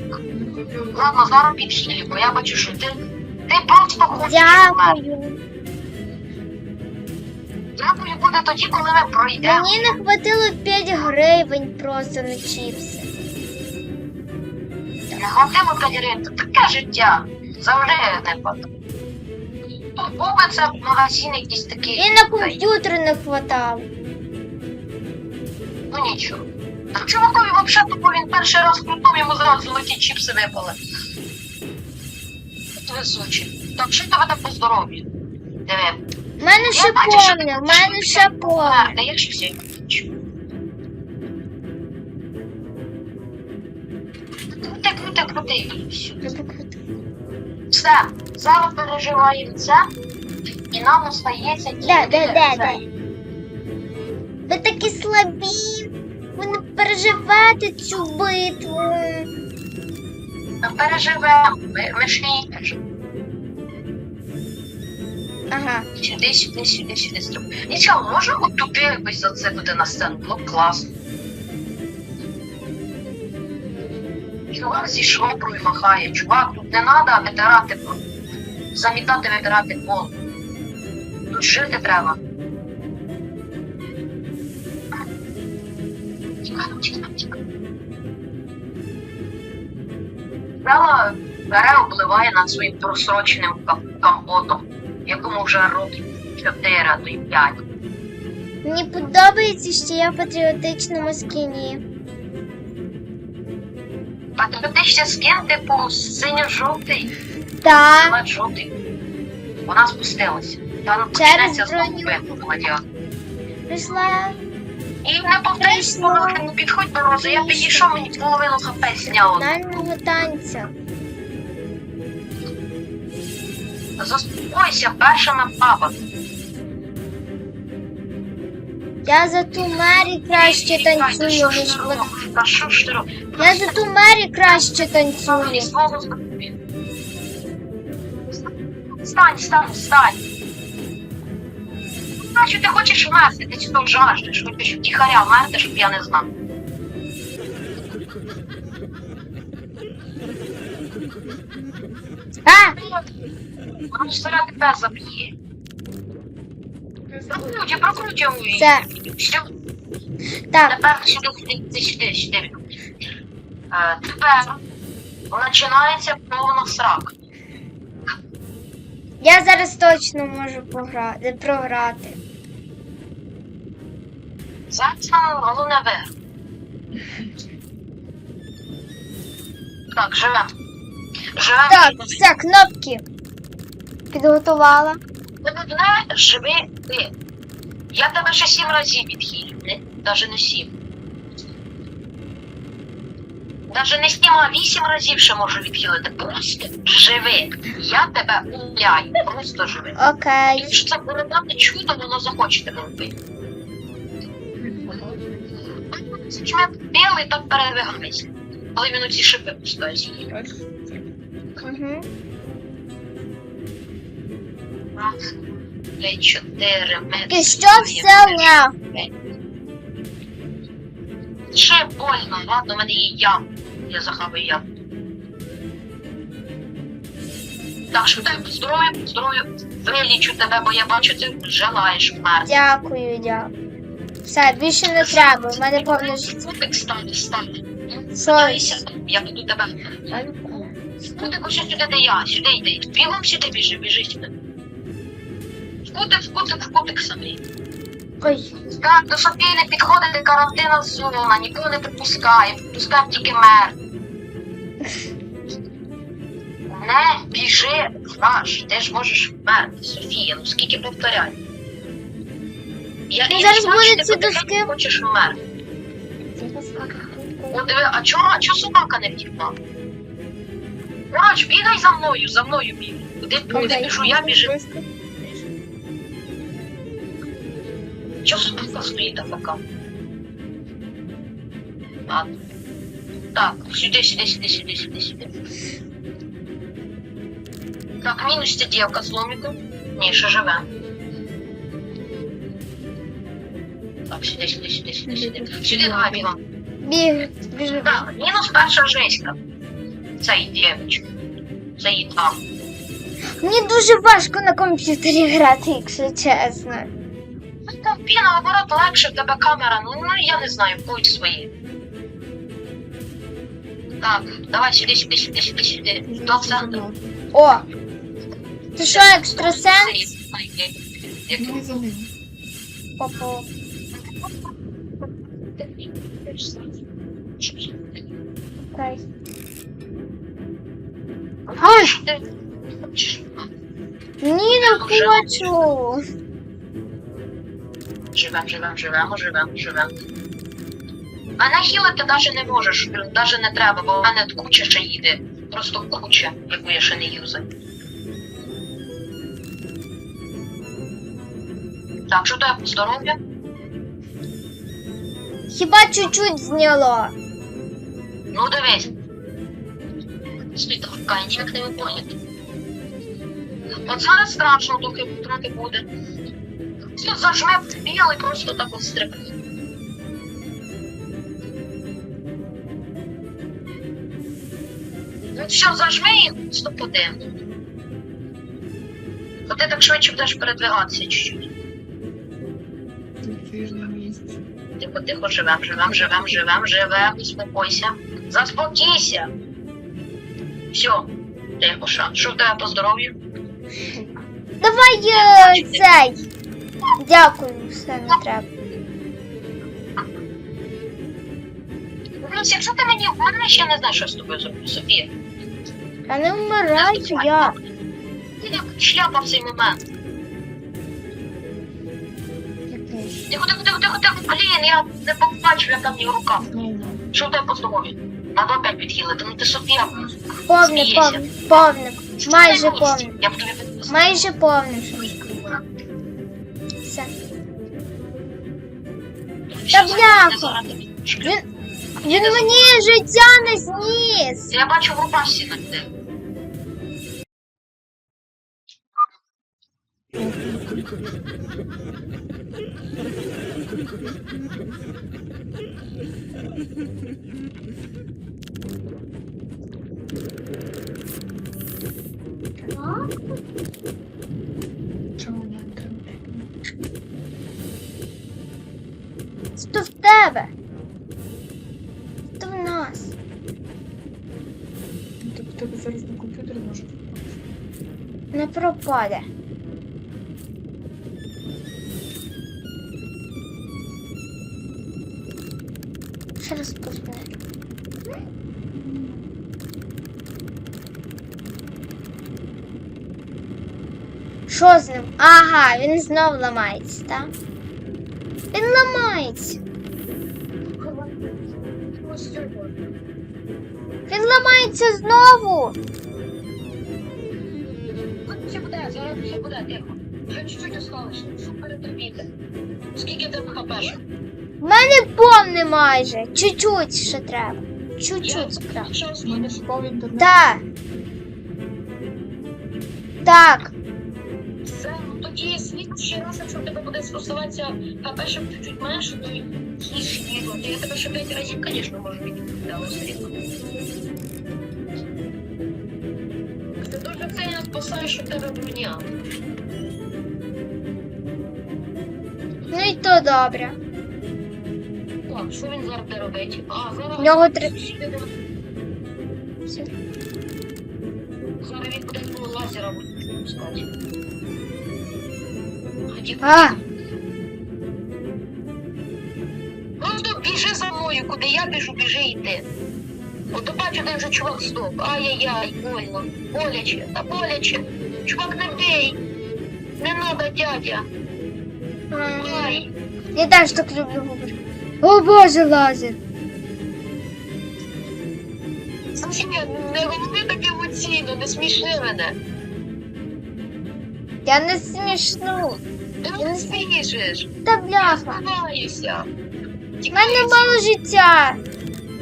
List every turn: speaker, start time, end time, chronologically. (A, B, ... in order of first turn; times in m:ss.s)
0:00.3-0:01.1 A
0:00.9-0:05.0 B
0:04.1-0:05.4 C
0:07.8-0:09.7 B
0:09.4-0:13.1 C
0:15.2-0:18.7 B
0:19.9-0:22.6 B
0:22.0-0:23.9 C
0:25.9-0:30.8 B
0:32.8-0:35.1 B
0:35.6-0:36.0 B
0:36.4-0:39.0 C
0:36.5-0:40.1 B
0:44.5-0:46.2 B
0:46.2-0:46.8 C
0:47.7-0:49.8 B
0:50.7-0:52.8 B
0:51.8-0:52.8 C
0:54.4-0:59.3 C
1:00.6-1:02.8 B
1:05.5-1:05.9 C
1:06.0-1:10.9 B
1:14.5-1:18.0 B
1:18.7-1:20.1 B
1:21.3-1:22.2 B
1:26.4-1:27.4 B
1:30.6-1:37.6 B
1:38.6-1:41.8 C
1:44.4-1:47.1 B
1:47.6-1:48.2 C
1:48.0-1:48.8 B
1:49.6-1:52.8 B
1:51.1-1:52.2 C
1:53.7-1:54.4 C
1:55.0-1:59.6 B
1:55.6-1:56.4 C
1:57.2-1:57.9 C
1:59.1-2:00.7 C
2:04.0-2:06.0 B
2:09.0-2:12.1 C
2:10.3-2:13.8 B
2:13.4-2:15.7 C
2:14.5-2:16.6 B
2:19.0-2:20.2 B
2:22.2-2:26.3 B
2:32.4-2:32.8 C
2:32.8-2:33.1 B
2:33.9-2:35.3 B
2:37.1-2:37.4 A
2:37.3-2:39.5 B
2:38.6-2:38.9 C
2:40.5-2:40.8 C
2:40.7-2:42.6 B
2:43.7-2:44.6 B
2:45.3-2:47.1 B
2:49.2-2:52.2 C
2:54.7-2:56.1 B
2:59.9-3:00.5 B
3:01.4-3:02.2 B
3:01.7-3:03.0 C
3:04.1-3:05.0 C
3:05.4-3:07.1 B
3:07.9-3:10.7 B
3:13.7-3:20.0 B
3:20.0-3:20.8 C
3:20.5-3:23.2 B
3:24.6-3:25.2 A
3:25.9-3:30.2 B
3:30.3-3:31.0 A
3:31.6-3:32.0 C
3:35.0-3:35.3 B
3:36.0-3:38.5 B
3:37.3-3:39.1 C
3:41.5-3:44.6 B
3:47.9-3:52.6 B
3:52.4-3:53.5 C
3:54.3-3:56.3 C
3:54.9-4:00.0 B
3:58.2-3:58.6 C
4:00.1-4:00.7 C
4:01.1-4:04.3 B
4:05.9-4:07.4 B
4:08.2-4:08.5 C
4:08.7-4:13.8 B
4:16.7-4:21.4 B
4:23.1-4:25.4 B
4:23.3-4:24.7 C
4:26.3-4:27.7 A
4:27.5-4:29.6 B
4:31.1-4:34.5 B
4:33.5-4:35.4 A
4:33.5-4:33.9 C
4:38.2-4:39.6 B
4:42.1-4:42.4 B
4:43.3-4:45.3 B
4:48.0-4:50.7 B
4:54.1-4:56.4 B
4:55.1-4:56.3 A
4:56.8-4:58.1 C
4:57.8-4:59.4 B
5:00.2-5:01.0 B
5:01.8-5:02.4 B
5:03.4-5:06.9 C
5:07.7-5:11.5 B
5:14.0-5:16.8 B
5:16.0-5:17.2 A
5:17.3-5:17.6 C
5:18.8-5:21.7 B
5:18.8-5:20.1 C
5:21.4-5:22.1 A
5:23.0-5:23.5 C
5:24.0-5:24.3 B
5:26.2-5:26.7 B
5:27.4-5:27.8 B
5:28.7-5:29.0 C
5:31.5-5:32.2 B
5:31.6-5:31.9 C
5:32.8-5:33.5 B
5:34.2-5:36.0 C
5:34.5-5:35.6 B
5:38.1-5:40.0 B
5:41.4-5:47.5 B
5:52.1-5:53.2 B
5:55.5-5:57.1 C
5:58.3-5:58.9 B
6:00.5-6:02.1 B
6:03.8-6:05.9 B
6:07.0-6:09.3 B
6:15.3-6:17.2 B
6:19.5-6:21.5 B
6:23.2-6:24.4 A
6:24.8-6:29.3 B
6:30.7-6:33.2 B
6:34.6-6:36.2 C
6:35.1-6:35.9 B
6:37.0-6:38.5 C
6:42.2-6:45.1 B
6:46.1-6:47.6 C
6:46.7-6:47.6 B
6:48.4-6:49.8 B
6:52.7-6:53.2 C
6:53.3-6:56.5 B
6:56.4-6:57.1 A
6:57.1-7:04.2 B
7:00.5-7:03.1 C
7:03.9-7:05.1 C
7:05.0-7:05.4 B
7:06.8-7:07.1 C
7:09.6-7:11.4 B
7:09.7-7:10.6 C
7:12.0-7:12.8 B
7:12.0-7:14.5 C
7:14.5-7:15.9 B
7:20.1-7:20.9 A
7:32.6-7:32.9 A
7:35.2-7:36.5 A
7:39.6-7:40.5 C
7:42.4-7:43.1 C
7:45.2-7:47.4 A
7:48.3-7:49.2 C
7:56.4-7:57.3 C
7:58.7-7:59.2 A
8:04.5-8:07.3 C
8:08.5-8:09.6 C
8:10.8-8:11.2 B
8:11.9-8:12.8 B
8:14.1-8:15.8 C
8:18.2-8:22.3 B
8:23.0-8:24.0 B
8:24.6-8:28.9 C
8:28.2-8:29.6 B
8:29.2-8:30.3 A
8:30.2-8:30.6 C
8:33.2-8:33.7 C
8:34.6-8:43.4 B
8:46.8-8:49.1 B
8:52.7-8:53.8 C
8:55.3-8:58.3 B
8:57.2-8:57.7 C
9:01.6-9:03.9 B
9:06.1-9:06.8 B
9:06.4-9:06.8 C
9:10.0-9:12.7 B
9:13.5-9:19.2 B
9:20.0-9:21.1 B
9:22.1-9:26.2 C
9:22.4-9:22.9 B
9:29.2-9:32.4 B
9:34.4-9:35.8 C
9:36.2-9:37.5 B
9:36.4-9:36.7 C
9:37.6-9:38.4 C
9:38.0-9:39.3 B
9:40.0-9:40.8 B
9:40.1-9:41.6 C